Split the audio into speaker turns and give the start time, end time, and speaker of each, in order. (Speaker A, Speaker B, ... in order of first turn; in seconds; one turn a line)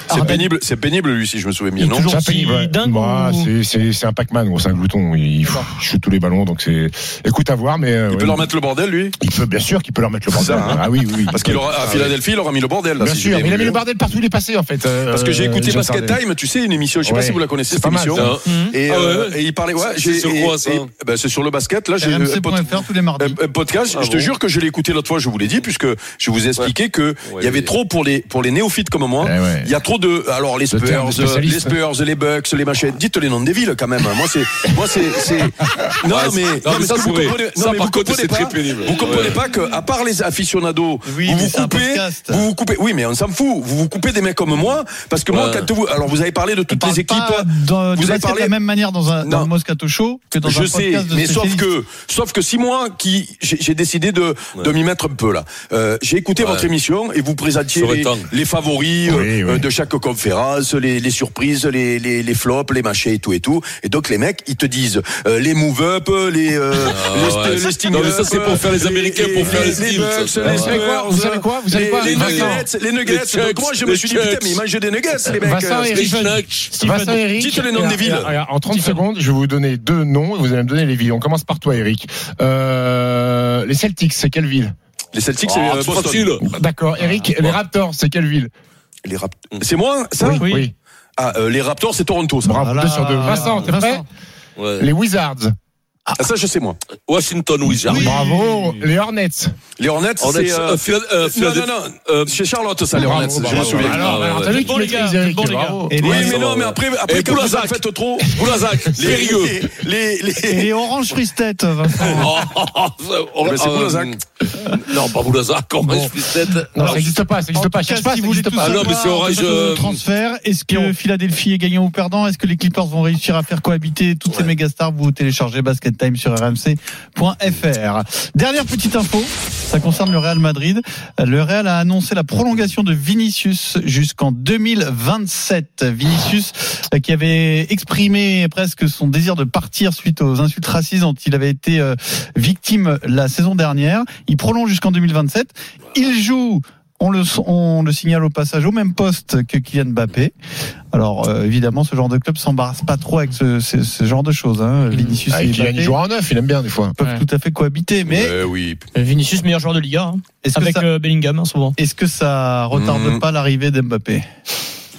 Speaker A: 0.1-0.5
Speaker B: 0.1-2.2
Speaker A: 1.8-3.5
Speaker C: 2.0-8.5
Speaker B: 8.1-9.2
Speaker C: 9.2-12.2
Speaker B: 10.3-13.8
Speaker C: 13.0-16.2
Speaker B: 15.1-48.5
Speaker C: 17.0-18.4
Speaker D: 18.1-20.9
Speaker A: 18.4-18.8
Speaker E: 22.0-23.4
Speaker D: 23.9-24.3
Speaker D: 27.2-27.7
Speaker C: 29.2-29.7
Speaker C: 30.7-31.7
Speaker D: 36.0-39.4
Speaker E: 41.0-42.5
Speaker D: 45.3-45.7
Speaker E: 46.7-51.7
Speaker B: 49.2-49.5
Speaker B: 50.4-76.0
Speaker D: 56.4-56.7
Speaker D: 57.7-58.3
Speaker C: 59.0-59.7
Speaker D: 66.8-70.9
Speaker C: 69.4-69.8
Speaker C: 70.4-72.7
Speaker D: 72.0-74.6
Speaker C: 75.2-84.7
Speaker D: 75.9-76.7
Speaker A: 76.0-78.1
Speaker B: 77.3-78.3
Speaker A: 78.6-79.0
Speaker B: 85.1-86.4
Speaker D: 85.4-86.4
Speaker C: 86.4-88.5
Speaker D: 87.0-87.6
Speaker B: 89.0-90.4
Speaker C: 90.2-90.7
Speaker A: 90.3-90.7
Speaker B: 91.2-92.7
Speaker C: 92.4-94.0
Speaker E: 92.6-94.0
Speaker D: 93.4-93.8
Speaker D: 94.6-94.9
Speaker C: 94.8-95.5
Speaker B: 96.2-96.8
Speaker D: 97.1-98.2
Speaker E: 97.8-98.2
Speaker C: 97.9-99.5
Speaker A: 98.1-98.4
Speaker B: 99.8-104.1
Speaker D: 100.2-102.4
Speaker C: 102.9-106.2
Speaker D: 103.0-104.7
Speaker A: 104.0-105.8
Speaker E: 105.9-106.4
Speaker D: 106.0-109.6
Speaker B: 106.0-110.8
Speaker E: 110.4-112.3
Speaker D: 112.0-117.2
Speaker B: 113.4-114.2
Speaker C: 115.9-116.1
Speaker C: 116.7-118.9
Speaker E: 117.5-150.3
Speaker D: 118.6-120.0
Speaker E: 150.9-156.0
Speaker C: 155.3-157.0
Speaker E: 157.0-158.3
Speaker A: 157.0-157.2
Speaker B: 158.0-158.8
Speaker A: 158.9-161.8
Speaker E: 160.4-160.8
Speaker E: 161.8-164.2
Speaker B: 162.7-163.2